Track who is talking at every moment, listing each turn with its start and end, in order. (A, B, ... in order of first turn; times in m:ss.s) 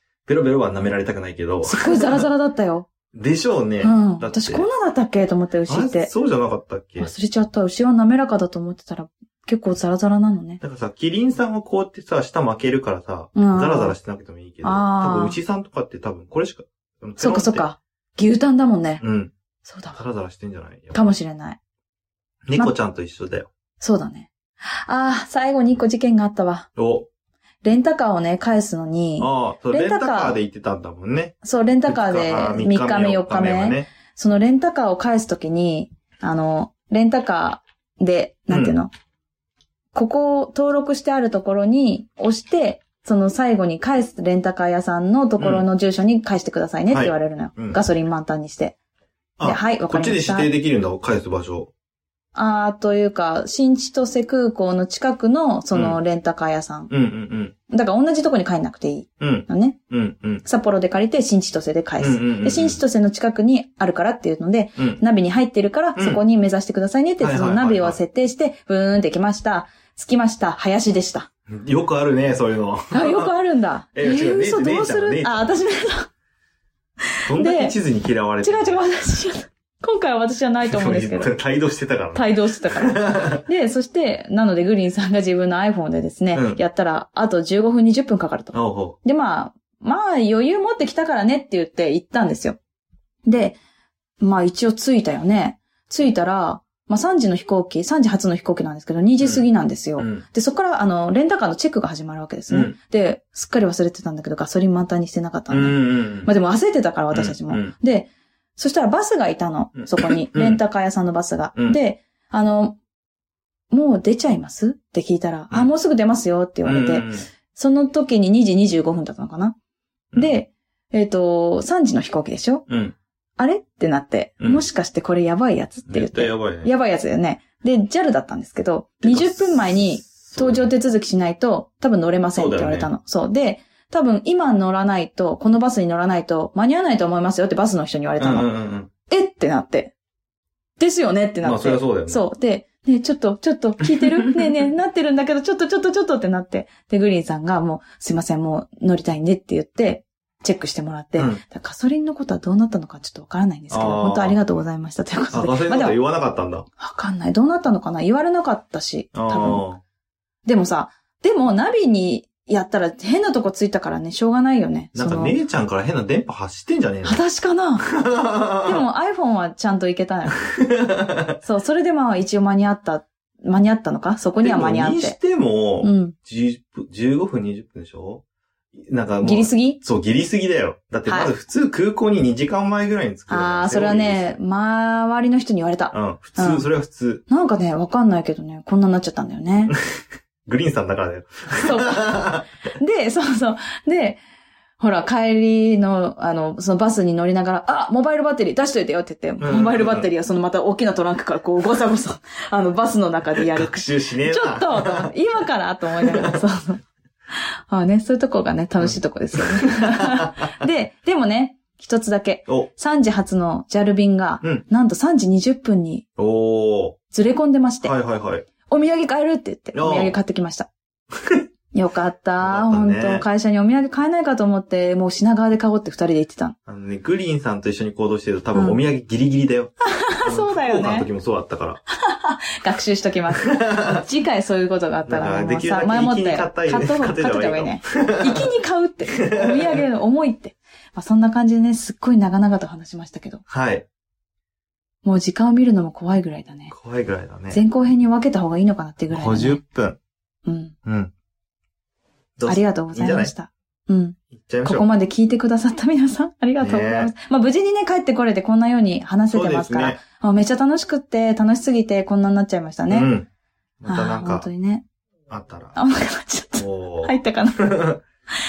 0:00.2-0:02.2 A
0:01.6-0:02.9 B
0:03.1-0:04.7 A
0:03.8-0:06.1 B
0:05.7-0:07.1 A
0:07.0-0:10.6 B
0:10.6-0:17.6 A
0:13.3-0:13.9 B
0:14.6-0:15.4 B
0:17.2-0:19.0 B
0:19.0-0:19.3 A
0:19.6-0:20.0 B
0:19.9-0:21.1 A
0:20.9-0:21.6 B
0:22.4-0:23.5 A
0:23.8-0:26.7 B
0:26.8-0:27.1 A
0:27.6-0:30.4 B
0:29.2-0:31.4 A
0:31.4-0:38.9 B
0:31.9-0:33.9 A
0:38.5-0:38.8 A
0:39.9-0:48.8 B
0:45.4-0:45.6 A
0:46.9-0:47.8 A
0:49.4-0:51.7 A
0:49.4-0:50.5 B
0:52.3-0:56.9 B
0:55.7-0:56.0 A
0:56.9-0:57.5 A
0:57.7-0:59.8 B
0:59.2-1:00.4 A
1:00.4-1:11.3 B
1:02.0-1:02.8 A
1:04.8-1:05.0 A
1:07.2-1:08.0 A
1:11.5-1:13.3 A
1:12.9-1:16.1 B
1:13.9-1:15.6 A
1:17.3-1:17.8 B
1:17.3-1:18.8 A
1:18.4-1:21.3 B
1:20.7-1:23.4 A
1:22.1-1:32.6 B
1:26.3-1:26.6 A
1:28.5-1:29.0 A
1:33.2-1:33.6 B
1:34.2-1:52.8 B
1:39.2-1:39.4 A
1:40.0-1:40.2 A
1:42.5-1:42.7 A
1:45.5-1:46.3 A
1:47.1-1:47.7 A
1:49.8-1:50.6 A
1:53.7-1:59.6 B
1:56.6-1:57.2 A
2:00.2-2:02.6 B
2:02.7-2:03.0 A
2:03.4-2:18.5 B
2:04.4-2:04.6 A
2:05.9-2:06.7 A
2:09.0-2:10.7 A
2:12.3-2:12.9 A
2:18.2-2:18.9 A
2:19.1-2:19.9 B
2:20.8-2:36.0 B
2:21.4-2:22.2 A
2:23.8-2:24.6 A
2:31.2-2:31.4 A
2:33.7-2:34.4 A
2:35.3-2:36.6 A
2:36.8-2:39.6 B
2:39.1-2:39.8 A
2:40.4-2:45.4 B
2:44.9-2:47.2 A
2:47.0-2:47.9 B
2:47.9-2:48.8 A
2:48.6-2:50.4 B
2:50.5-2:51.4 A
2:51.4-2:55.2 B
2:54.4-2:58.2 A
2:55.8-2:56.1 B
2:58.7-3:04.4 A
2:59.2-2:59.8 B
3:01.1-3:01.3 B
3:03.3-3:06.6 B
3:05.9-3:07.2 A
3:07.3-3:09.7 B
3:09.7-3:12.4 A
3:11.6-3:14.2 B
3:14.8-3:26.8 B
3:19.4-3:20.1 A
3:23.4-3:25.1 A
3:25.9-3:26.4 A
3:27.7-3:36.0 B
3:28.8-3:30.5 A
3:36.2-3:37.0 A
3:37.1-3:37.9 B
3:37.8-3:38.4 A
3:38.7-3:40.7 B
3:39.7-3:40.1 A
3:41.1-3:41.4 A
3:41.7-3:46.6 B
3:42.4-3:43.2 A
3:46.7-3:51.8 A
3:48.5-3:48.8 B
3:49.8-3:51.1 B
3:51.9-4:03.4 B
3:53.4-3:54.0 A
3:55.1-3:58.4 A
3:59.2-3:59.8 A
4:03.5-4:03.8 A
4:05.0-4:06.7 B
4:06.7-4:07.6 A
4:07.5-4:09.6 B
4:09.1-4:10.0 A
4:10.4-4:10.7 B
4:10.8-4:11.1 A
4:12.4-4:13.3 A
4:12.4-4:23.1 B
4:14.3-4:14.8 A
4:16.6-4:17.1 A
4:19.3-4:20.0 A
4:22.9-4:23.3 A
4:23.8-4:24.5 A
4:23.9-4:24.8 B
4:25.3-4:25.8 A
4:25.8-4:27.9 B
4:26.6-4:27.1 A
4:27.6-4:28.0 A